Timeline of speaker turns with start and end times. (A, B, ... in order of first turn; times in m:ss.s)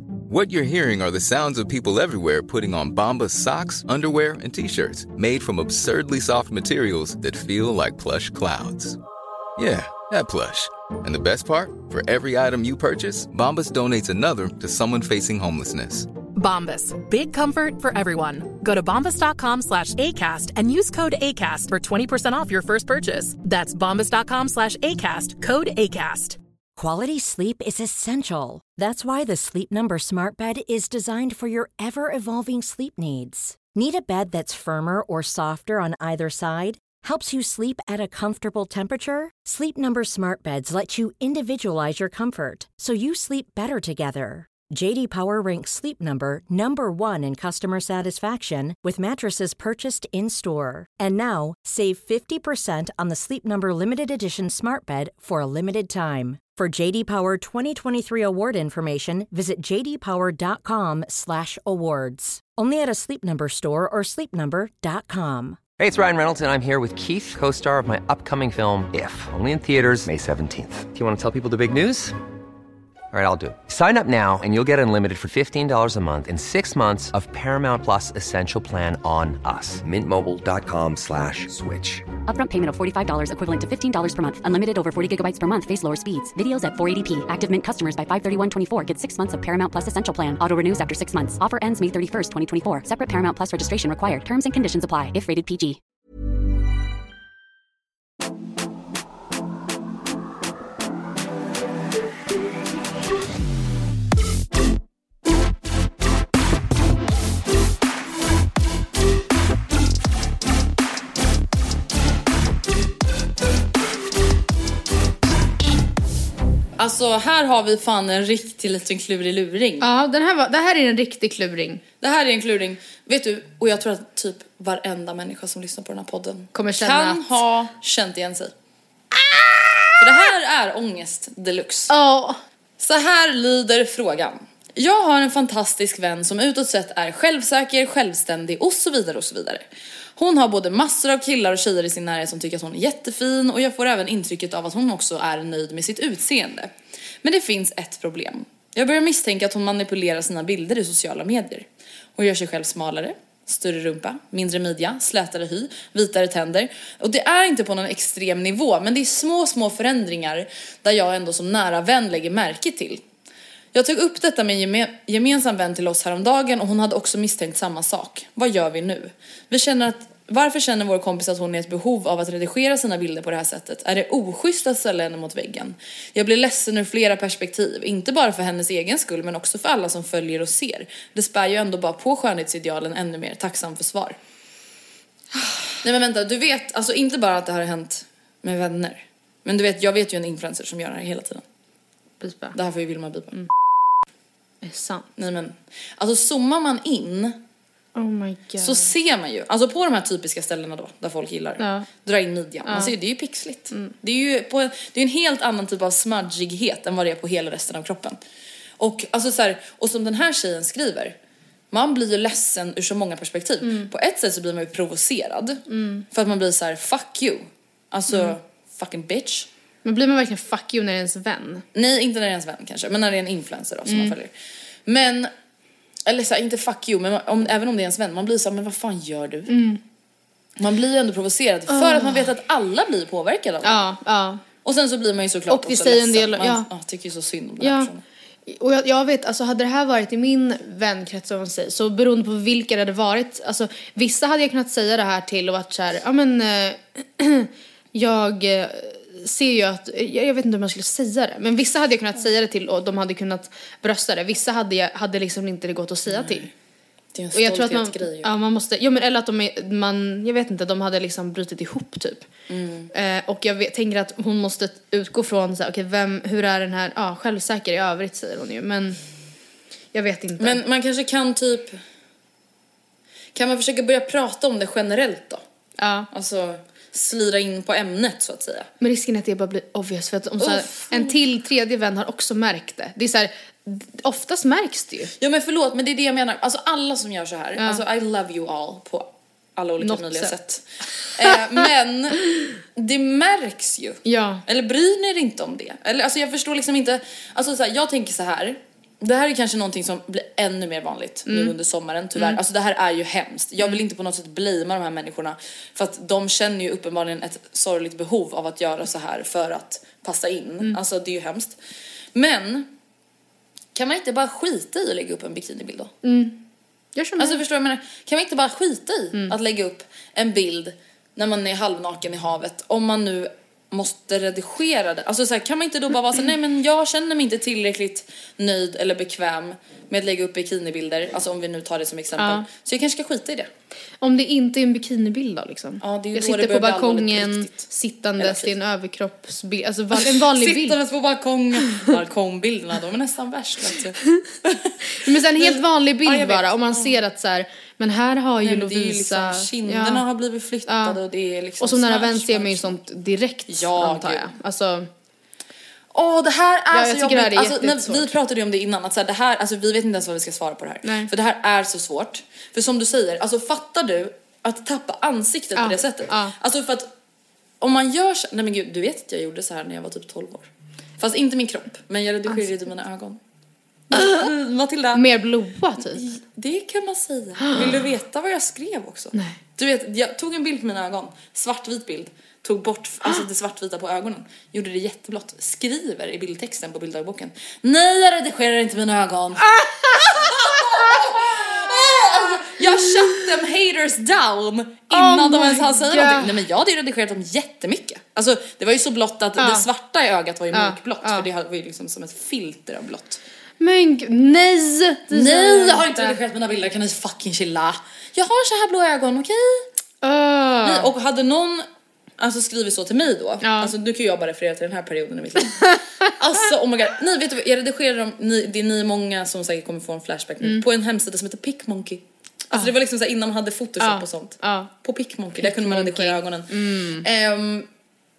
0:00.3-0:09.0 A
0:09.6-0:16.1 A
0:16.4-0:26.4 B
0:26.8-1:05.6 C
1:05.8-1:12.1 D
1:13.1-1:22.0 D
1:22.3-1:35.8 E
1:56.8-1:59.9 F
1:59.8-2:01.8 G
2:02.0-2:08.5 F
2:06.5-2:07.4 G
2:09.3-2:09.8 G
2:10.0-2:11.9 F
2:11.9-2:12.4 G
2:12.8-2:19.6 F
2:20.2-2:26.7 F
2:27.2-2:43.0 F
2:43.7-3:04.2 F
3:05.8-3:11.4 F
3:12.2-3:12.6 G
3:12.6-3:13.4 F
3:14.6-3:15.1 G
3:15.2-3:17.4 F
3:18.0-3:18.9 G
3:18.6-3:28.2 F
3:21.6-3:21.9 G
3:22.7-3:22.9 G
3:28.8-3:31.2 F
3:31.7-3:35.6 F
3:33.6-3:33.9 G
3:35.7-3:36.1 G
3:36.1-3:39.5 F
3:39.8-3:41.6 G
3:41.8-3:44.3 F
3:43.9-3:44.2 G
3:44.9-3:45.3 F
3:46.1-3:49.5 F
3:49.5-3:49.8 G
3:50.6-3:53.9 F
3:51.7-3:52.3 G
3:53.6-3:54.4 G
3:54.6-3:58.0 F
3:55.5-3:56.7 G
3:57.6-3:57.9 G
3:58.5-4:16.5 G
4:16.1-4:16.5 F
4:17.2-4:18.3 F
4:17.3-4:22.3 G
4:22.5-4:22.9 F
4:22.9-4:29.0 G
4:29.9-4:30.6 G
4:30.4-4:31.8 F
4:33.4-4:35.4 F
4:35.8-4:36.1 G
4:36.1-4:38.7 F
4:38.8-4:45.1 G
4:40.4-4:41.1 F
4:45.2-4:50.6 F
4:49.8-4:50.4 G
4:51.2-4:52.2 F
4:52.8-5:11.6 F
4:54.0-4:54.4 G
5:01.3-5:01.6 G
5:12.2-5:12.7 F
5:13.8-5:15.9 F
5:16.0-5:16.4 G
5:17.0-5:17.4 G
5:17.2-5:33.5 F
5:32.2-5:32.5 G
5:34.0-5:40.8 G
5:35.8-5:37.7 F
5:38.2-5:38.5 F
5:39.9-5:47.0 F
5:45.0-5:50.0 G
5:48.4-5:52.8 F
5:50.7-5:51.0 G
5:51.6-5:54.9 G
5:53.5-5:54.3 F
5:55.9-6:06.9 F
5:56.7-5:58.2 G
6:00.8-6:01.1 G
6:05.6-6:06.3 G
6:07.6-6:10.5 F
6:11.0-6:13.2 F
6:13.9-6:15.0 F
6:14.9-6:16.0 G
6:16.0-6:43.2 F
6:17.4-6:17.7 G
6:29.4-6:30.4 G
6:34.9-6:36.4 G
6:39.4-6:39.7 G
6:40.5-6:41.3 G
6:43.6-6:46.2 G
6:45.1-6:49.7 F
6:50.0-6:50.9 G
6:50.6-6:51.6 F
6:52.2-7:07.7 F
6:53.4-6:53.7 G
7:03.8-7:04.7 G
7:05.4-7:07.0 G